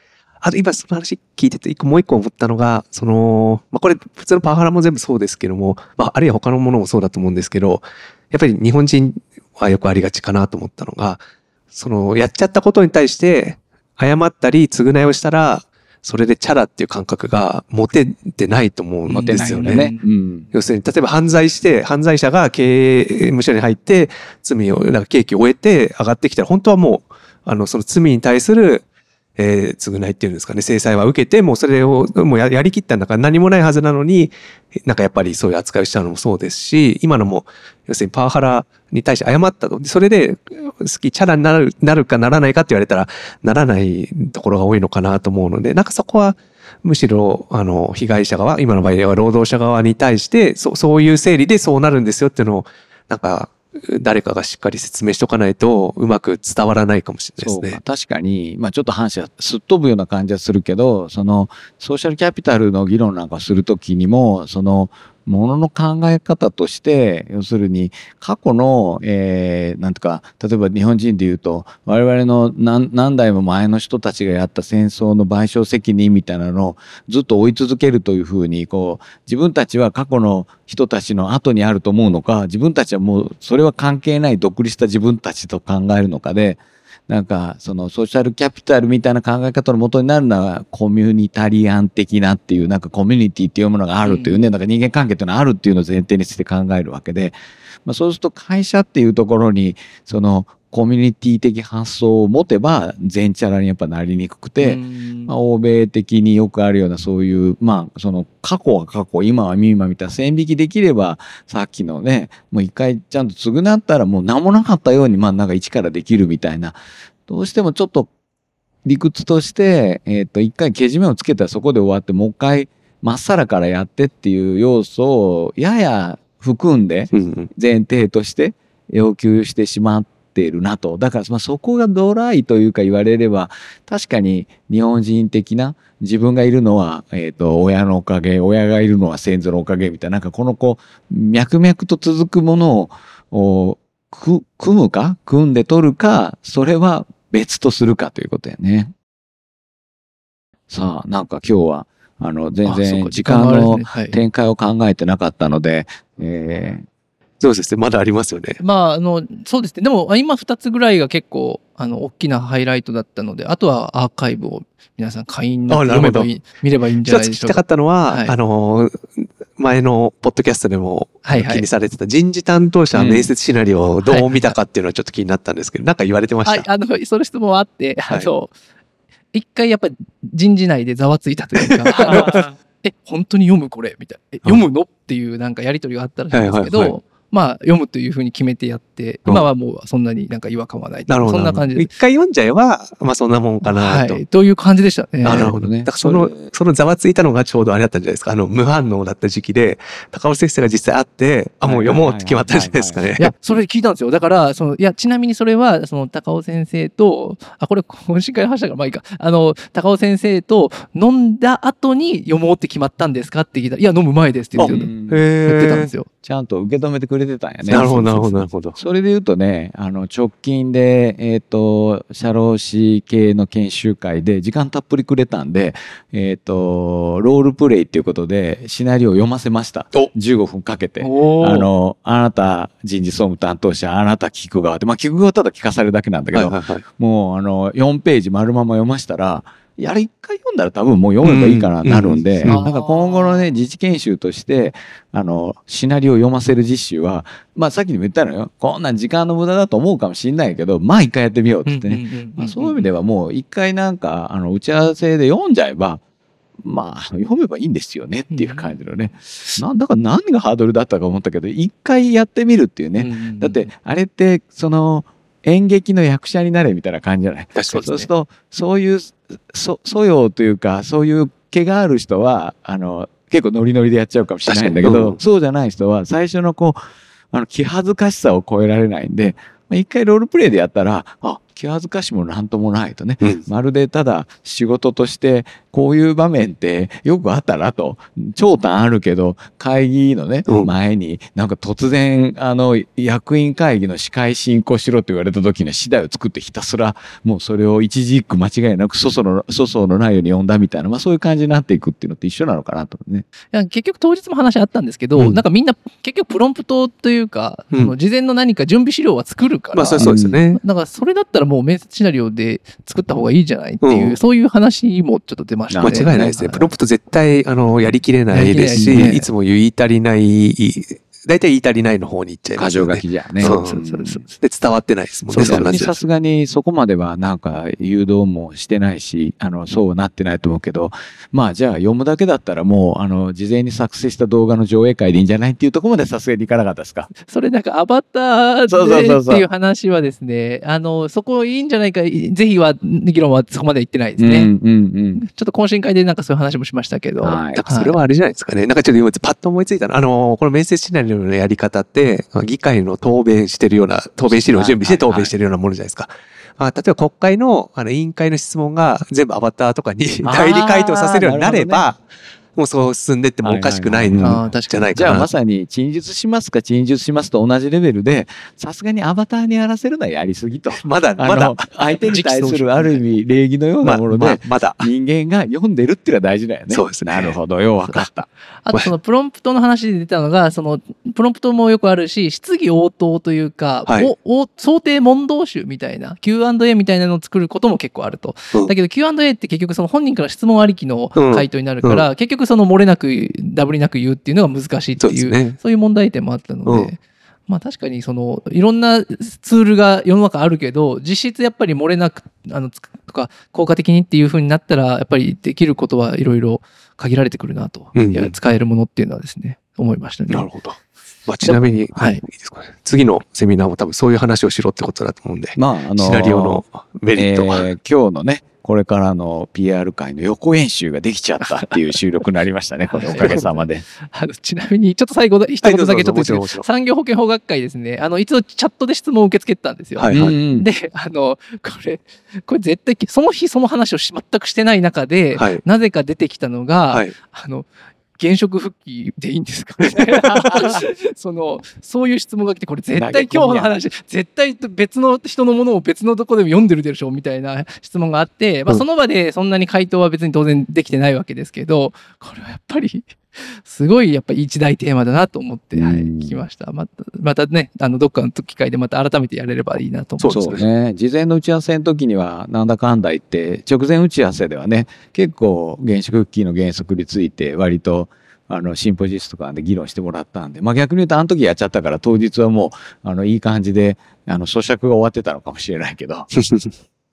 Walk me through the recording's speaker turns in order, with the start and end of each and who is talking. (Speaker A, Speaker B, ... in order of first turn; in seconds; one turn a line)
Speaker A: 0.4-19.9
Speaker B: 19.1-20.0
Speaker C: 19.1-20.5
Speaker A: 20.5-28.9
Speaker A: 29.4-57.8
Speaker C: 57.4-118.1
Speaker B: 94.0-94.5
Speaker B: 104.6-105.3
Speaker C: 118.8-148.9
Speaker A: 127.1-127.5
Speaker C: 150.7-156.9
Speaker B: 152.7-154.2
Speaker A: 157.4-158.6
Speaker B: 158.6-168.4
Speaker A: 165.7-166.3
Speaker A: 167.1-176.7
Speaker B: 171.2-171.7
Speaker C: 172.9-173.3
Speaker B: 174.0-174.6
Speaker B: 176.4-178.5
Speaker B: 179.3-191.9
Speaker A: 181.6-182.5
Speaker A: 186.3-186.9
Speaker A: 191.1-194.2
Speaker B: 193.6-195.6
Speaker C: 195.2-196.4
Speaker A: 195.2-203.3
Speaker C: 201.7-203.1
Speaker B: 203.2-214.9
Speaker C: 214.6-215.2
Speaker A: 214.7-215.9
Speaker B: 215.5-216.1
Speaker C: 216.2-256.0
Speaker A: 217.7-218.8
Speaker B: 231.0-231.7
Speaker A: 236.3-236.8
Speaker A: 241.2-242.6
Speaker B: 242.4-243.5
Speaker B: 251.7-252.9
Speaker C: 256.6-276.8
Speaker B: 258.3-258.7
Speaker B: 263.0-263.7
Speaker A: 267.6-268.0
Speaker B: 267.7-268.1
Speaker A: 274.5-275.2
Speaker C: 277.3-303.3
Speaker B: 303.5-316.7
Speaker A: 309.7-310.6
Speaker C: 310.0-310.4
Speaker A: 313.8-314.2
Speaker C: 315.7-316.6
Speaker A: 315.8-323.8
Speaker B: 318.3-319.3
Speaker C: 318.8-319.1
Speaker C: 322.6-324.3
Speaker B: 323.4-324.3
Speaker A: 324.4-326.0
Speaker B: 325.3-325.9
Speaker C: 325.4-337.1
Speaker B: 337.2-344.5
Speaker C: 338.7-339.5
Speaker C: 344.2-345.2
Speaker B: 345.2-348.0
Speaker C: 347.2-347.6
Speaker A: 347.5-362.0
Speaker C: 354.3-355.3
Speaker C: 360.2-361.9
Speaker A: 362.6-365.3
Speaker C: 363.4-378.3
Speaker B: 364.2-365.2
Speaker A: 370.8-372.4
Speaker B: 372.1-373.0
Speaker A: 373.8-374.9
Speaker A: 376.7-377.4
Speaker B: 378.6-410.5
Speaker A: 391.1-392.1
Speaker A: 395.0-395.6
Speaker A: 396.7-396.9
Speaker A: 407.9-408.4
Speaker A: 410.3-417.7
Speaker B: 411.4-412.2
Speaker C: 415.6-416.6
Speaker C: 417.1-423.9
Speaker B: 421.4-421.7
Speaker B: 422.9-460.6
Speaker A: 425.6-426.7
Speaker A: 430.0-430.3
Speaker C: 430.1-430.7
Speaker A: 435.4-435.6
Speaker C: 442.9-443.8
Speaker C: 455.8-456.4
Speaker A: 460.2-460.6
Speaker C: 460.3-476.3
Speaker A: 476.4-476.7